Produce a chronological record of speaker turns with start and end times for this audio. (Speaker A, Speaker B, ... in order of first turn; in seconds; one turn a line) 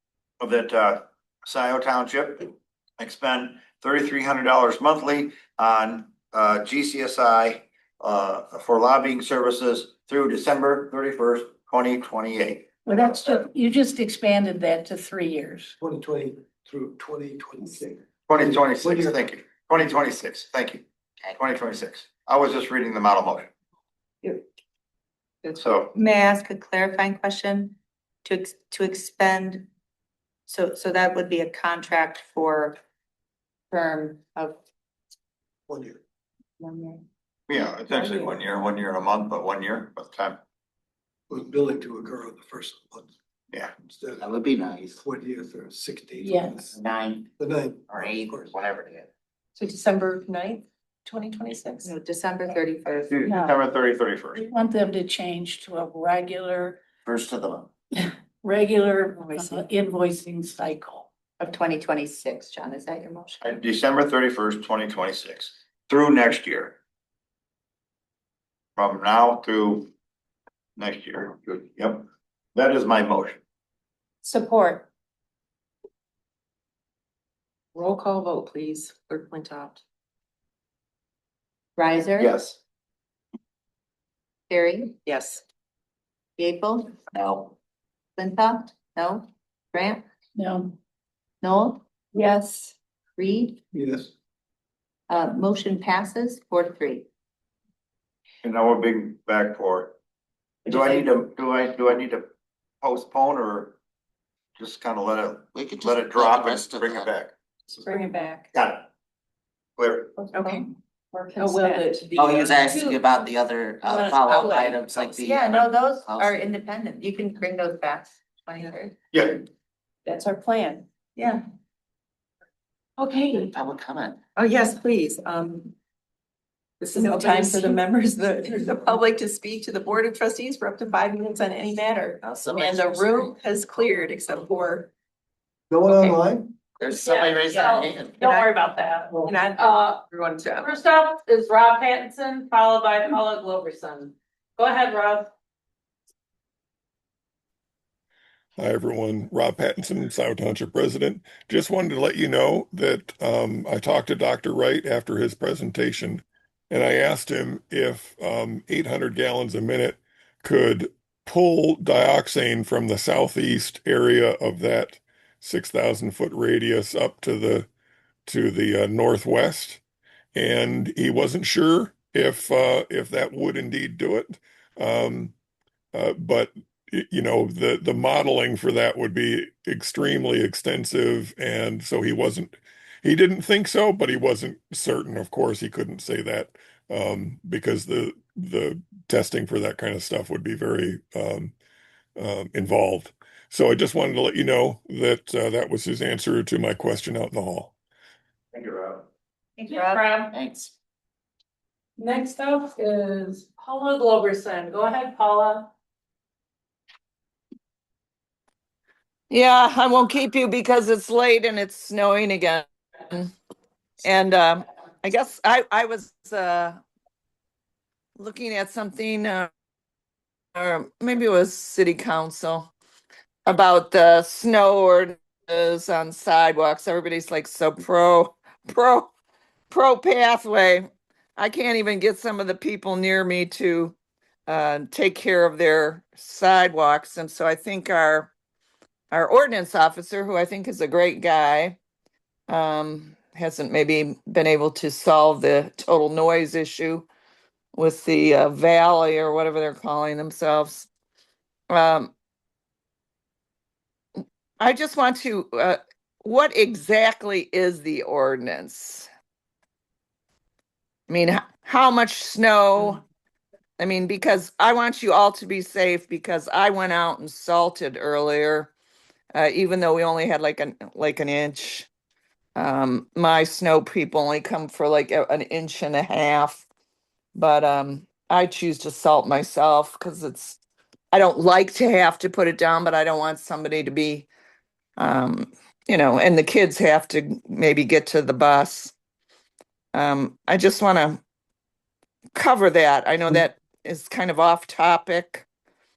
Speaker A: 0.4-12.7
Speaker B: 12.9-15.7
Speaker C: 15.8-19.3
Speaker A: 18.3-23.5
Speaker A: 25.5-25.9
Speaker D: 25.9-29.7
Speaker D: 30.5-32.8
Speaker D: 33.7-34.5
Speaker C: 35.7-36.0
Speaker D: 36.6-37.0
Speaker A: 37.5-40.4
Speaker C: 38.0-38.3
Speaker C: 41.3-43.1
Speaker C: 43.9-44.3
Speaker E: 44.2-45.0
Speaker C: 45.0-46.8
Speaker B: 46.2-46.6
Speaker E: 46.7-47.3
Speaker C: 47.4-48.5
Speaker E: 47.9-49.1
Speaker F: 49.5-51.9
Speaker D: 51.8-53.4
Speaker A: 53.1-54.4
Speaker B: 54.3-56.8
Speaker E: 57.0-57.7
Speaker B: 58.4-61.1
Speaker F: 59.2-59.6
Speaker D: 61.4-63.4
Speaker A: 63.4-66.8
Speaker A: 68.8-69.9
Speaker A: 70.8-73.4
Speaker B: 74.2-74.8
Speaker F: 77.8-79.8
Speaker D: 81.8-82.3
Speaker A: 82.2-82.6
Speaker D: 84.5-85.0
Speaker F: 85.0-85.4
Speaker D: 86.4-86.9
Speaker D: 88.2-90.0
Speaker B: 90.4-90.8
Speaker D: 91.4-92.3
Speaker D: 93.2-93.6
Speaker C: 93.7-94.1
Speaker D: 95.1-97.1
Speaker A: 98.4-100.0
Speaker A: 100.7-102.2
Speaker A: 102.8-103.8
Speaker A: 104.6-107.3
Speaker E: 105.5-107.1
Speaker F: 107.8-108.4
Speaker A: 108.5-108.9
Speaker A: 109.8-110.2
Speaker F: 110.3-110.7
Speaker B: 111.4-113.0
Speaker F: 111.4-112.1
Speaker E: 112.1-116.5
Speaker B: 113.8-114.6
Speaker D: 114.6-118.9
Speaker A: 119.1-119.4
Speaker B: 120.1-120.8
Speaker F: 121.2-121.5
Speaker F: 123.0-123.4
Speaker E: 123.3-124.2
Speaker F: 124.4-125.7
Speaker F: 126.8-134.9
Speaker E: 132.2-133.3
Speaker C: 135.7-136.5
Speaker F: 135.9-136.2
Speaker E: 136.8-138.2
Speaker B: 136.9-137.3
Speaker G: 137.0-138.7
Speaker F: 137.3-137.7
Speaker F: 138.2-140.8
Speaker G: 140.6-145.3
Speaker H: 148.6-167.7
Speaker H: 168.3-169.8
Speaker H: 170.3-175.3
Speaker H: 175.9-182.5
Speaker H: 183.0-191.5
Speaker H: 192.2-197.7
Speaker A: 198.5-199.0
Speaker D: 199.6-200.1
Speaker G: 199.7-200.3
Speaker E: 200.3-200.7
Speaker G: 202.0-205.7
Speaker I: 209.3-213.3
Speaker I: 214.0-216.8
Speaker I: 218.2-219.5
Speaker I: 220.5-222.7
Speaker I: 223.5-229.1
Speaker I: 229.7-233.9
Speaker I: 234.5-238.3
Speaker I: 239.1-241.8
Speaker I: 242.5-247.1
Speaker I: 247.7-250.9
Speaker I: 251.7-252.1
Speaker I: 254.6-259.1
Speaker I: 261.1-263.0
Speaker I: 263.8-268.7
Speaker I: 269.3-271.9
Speaker I: 272.6-276.6
Speaker I: 277.4-280.6
Speaker I: 281.1-284.3
Speaker I: 285.0-288.9
Speaker I: 289.9-291.2
Speaker I: 292.4-295.4